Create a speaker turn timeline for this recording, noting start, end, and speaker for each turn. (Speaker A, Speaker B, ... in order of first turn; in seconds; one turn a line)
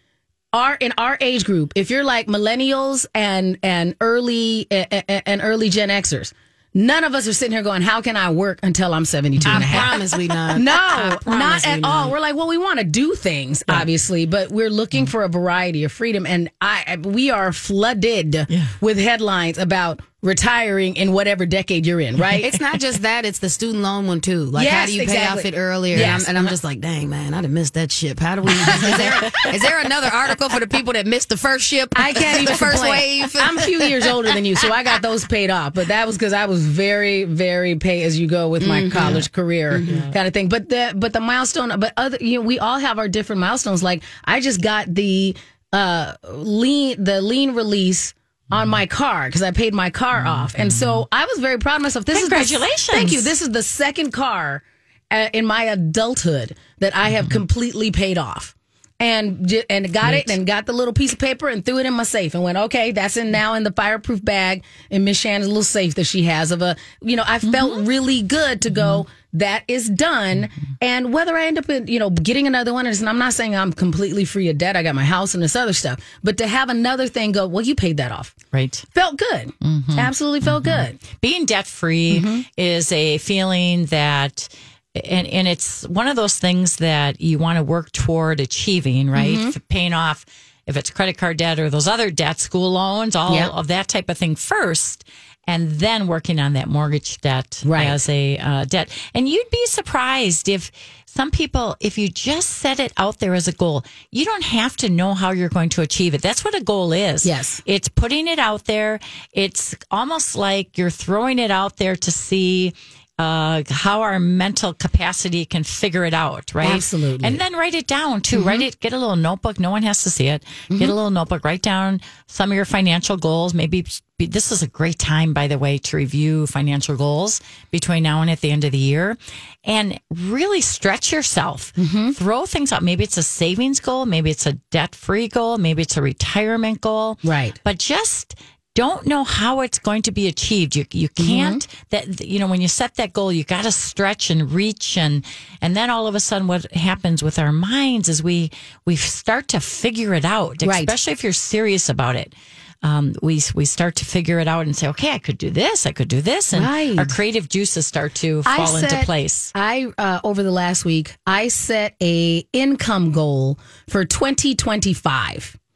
Speaker A: 0.5-22.5
Speaker B: 9.4-9.8
Speaker C: 9.4-12.1
Speaker B: 18.5-18.8
Speaker C: 22.3-34.2
Speaker A: 24.6-26.6
Speaker A: 28.6-29.3
Speaker A: 31.9-78.4
Speaker C: 38.6-40.0
Speaker B: 39.9-40.1
Speaker B: 50.4-50.9
Speaker B: 52.1-53.3
Speaker B: 60.0-60.3
Speaker B: 78.5-78.9
Speaker A: 78.9-81.0
Speaker B: 79.6-159.5
Speaker A: 82.1-82.5
Speaker A: 89.2-89.5
Speaker A: 97.7-98.0
Speaker A: 107.2-107.6
Speaker A: 116.6-117.4
Speaker A: 118.3-118.7
Speaker A: 131.8-132.2
Speaker A: 137.2-137.6
Speaker A: 141.2-141.6
Speaker A: 150.6-150.9
Speaker A: 156.5-157.1
Speaker A: 158.5-165.6